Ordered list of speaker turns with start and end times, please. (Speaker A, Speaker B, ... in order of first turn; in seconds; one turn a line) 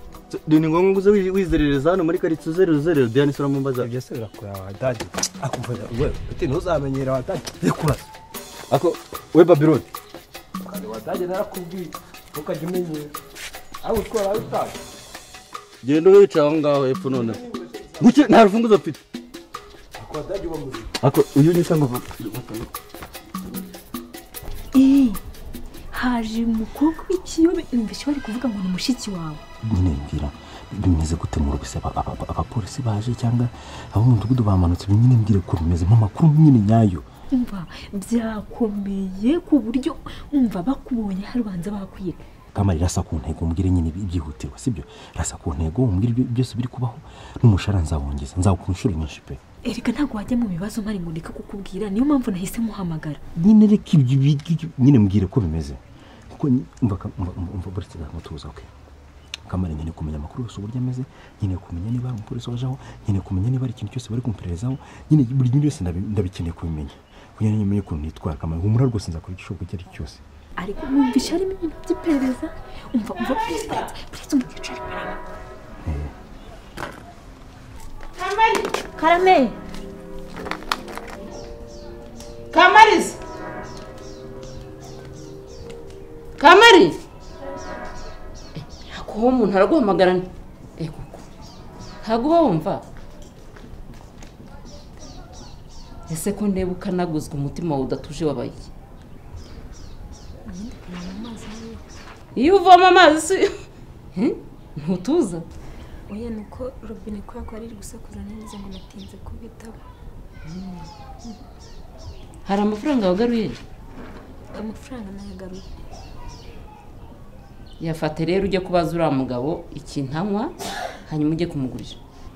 Speaker A: 0.3-3.9
Speaker B: 3.8-8.1
Speaker A: 8.7-9.9
Speaker B: 10.6-13.1
Speaker B: 13.8-14.8
Speaker A: 15.8-17.4
Speaker B: 17.1-18.2
Speaker A: 18.0-19.0
Speaker B: 20.0-20.9
Speaker A: 21.0-22.7
Speaker C: 24.7-25.2
Speaker C: 25.9-29.4
Speaker D: 29.6-37.1
Speaker C: 37.3-42.2
Speaker D: 42.5-49.4
Speaker C: 49.6-53.2
Speaker D: 53.4-55.8
Speaker D: 56.3-58.7
Speaker D: 59.5-70.2
Speaker C: 70.6-75.2
Speaker D: 75.8-76.1
Speaker E: 78.2-78.7
Speaker C: 79.0-79.6
Speaker E: 82.5-83.2
Speaker E: 86.4-87.0
Speaker E: 88.5-91.2
Speaker E: 92.0-92.8
Speaker E: 96.1-98.7
Speaker F: 100.5-101.8
Speaker E: 102.3-103.5
Speaker E: 104.2-105.5
Speaker F: 106.1-109.8
Speaker E: 112.5-113.6
Speaker F: 114.5-115.7
Speaker E: 117.8-120.5
Speaker E: 121.0-122.0